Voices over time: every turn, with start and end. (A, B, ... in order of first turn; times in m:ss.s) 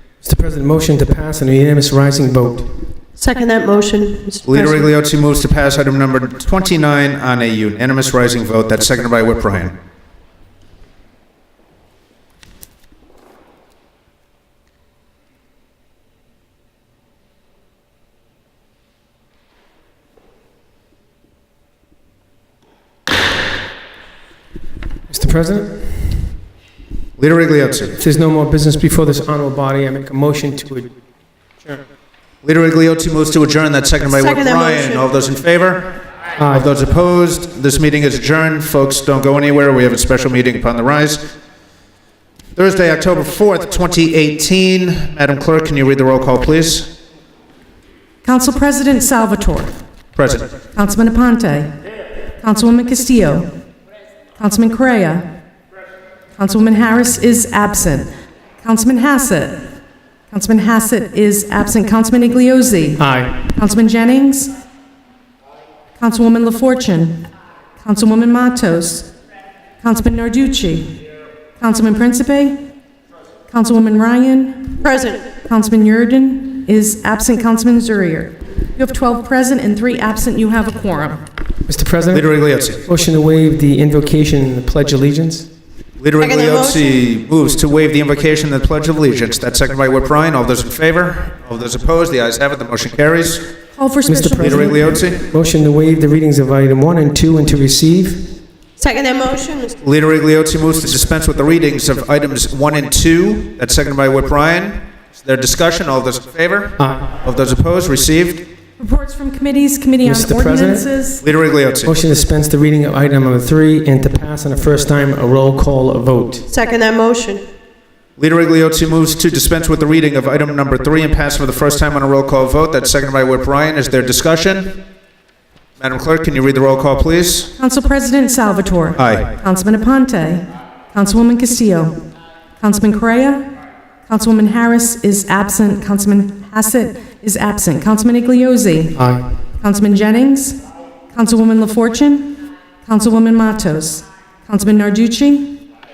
0:00.2-0:02.7 A
0:03.2-0:04.8 B
0:04.4-0:09.7 C
0:25.1-0:26.3 A
0:27.2-0:28.0 C
0:27.9-0:30.9 A
0:32.4-0:36.0 C
0:34.1-0:35.0 B
0:36.4-0:36.7 A
0:36.5-0:41.2 C
0:42.6-0:46.9 C
0:48.2-0:49.8 D
0:50.2-0:50.5 C
0:50.7-0:51.7 D
0:52.4-0:53.5 D
0:54.4-0:55.3 D
0:56.4-0:58.1 D
0:58.6-0:59.6 D
1:00.3-1:04.5 D
1:03.0-1:03.4 A
1:06.0-1:07.2 D
1:07.8-1:09.1 D
1:09.8-1:11.0 D
1:11.6-1:12.6 D
1:13.5-1:14.8 D
1:14.8-1:15.2 B
1:15.4-1:21.2 D
1:21.6-1:22.3 A
1:22.1-1:22.8 C
1:22.8-1:25.5 A
1:26.0-1:33.5 C
1:26.2-1:27.0 B
1:33.7-1:34.8 D
1:34.1-1:38.4 A
1:34.4-1:35.2 C
1:38.8-1:39.7 B
1:39.8-1:48.4 C
1:46.8-1:47.2 A
1:48.8-1:51.2 D
1:50.0-1:50.9 A
1:51.2-1:51.9 C
1:51.8-1:56.4 A
1:56.5-1:57.4 B
1:58.2-2:04.8 C
2:05.8-2:07.5 C
2:07.6-2:12.0 D
2:09.0-2:09.3 C
2:12.6-2:13.5 D
2:14.0-2:19.0 D
2:19.0-2:19.2 A
2:19.6-2:25.6 D